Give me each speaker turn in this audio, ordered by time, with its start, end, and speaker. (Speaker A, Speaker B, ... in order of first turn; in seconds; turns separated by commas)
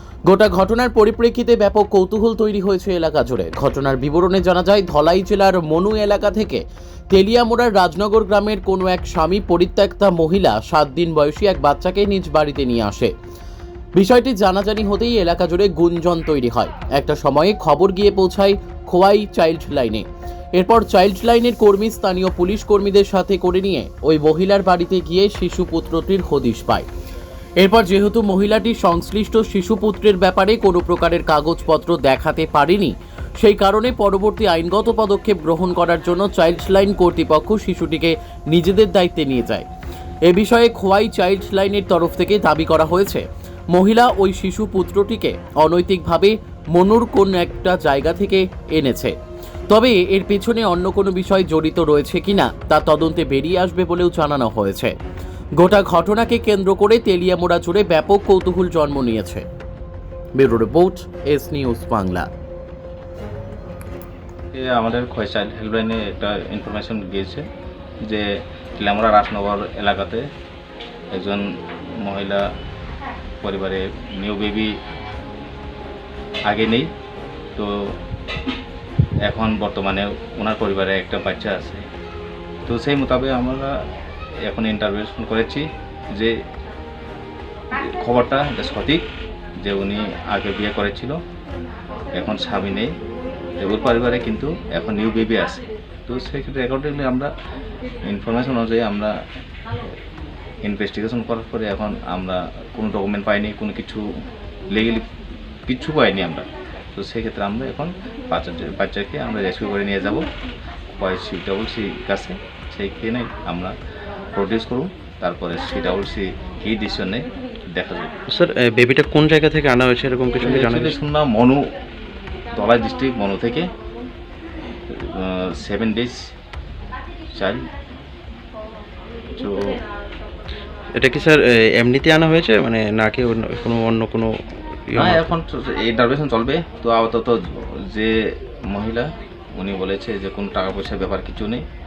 Speaker A: 0.3-13.1, Speaker A: 13.9-26.9, Speaker A: 27.6-39.7, Speaker A: 40.2-49.1, Speaker A: 49.7-55.0, Speaker A: 55.6-59.5, Speaker A: 60.4-62.3, Speaker B: 64.5-67.4, Speaker B: 68.8-70.2, Speaker B: 71.1-71.4, Speaker B: 72.0-72.5, Speaker B: 73.4-74.7, Speaker B: 76.5-76.9, Speaker B: 77.5-78.0, Speaker B: 79.2-81.8, Speaker B: 82.7-83.8, Speaker B: 84.4-86.3, Speaker B: 87.7-89.0, Speaker B: 89.6-91.2, Speaker B: 92.1-92.9, Speaker B: 93.6-97.3, Speaker B: 98.0-99.1, Speaker B: 100.6-104.0, Speaker B: 104.7-105.0, Speaker B: 105.7-110.3, Speaker B: 111.0-113.8, Speaker B: 114.3-118.1, Speaker C: 118.3-121.0, Speaker B: 120.4-121.6, Speaker B: 122.5-123.7, Speaker B: 124.9-126.2, Speaker B: 127.3-127.6, Speaker B: 129.3-129.8, Speaker C: 130.9-135.3, Speaker B: 134.9-141.6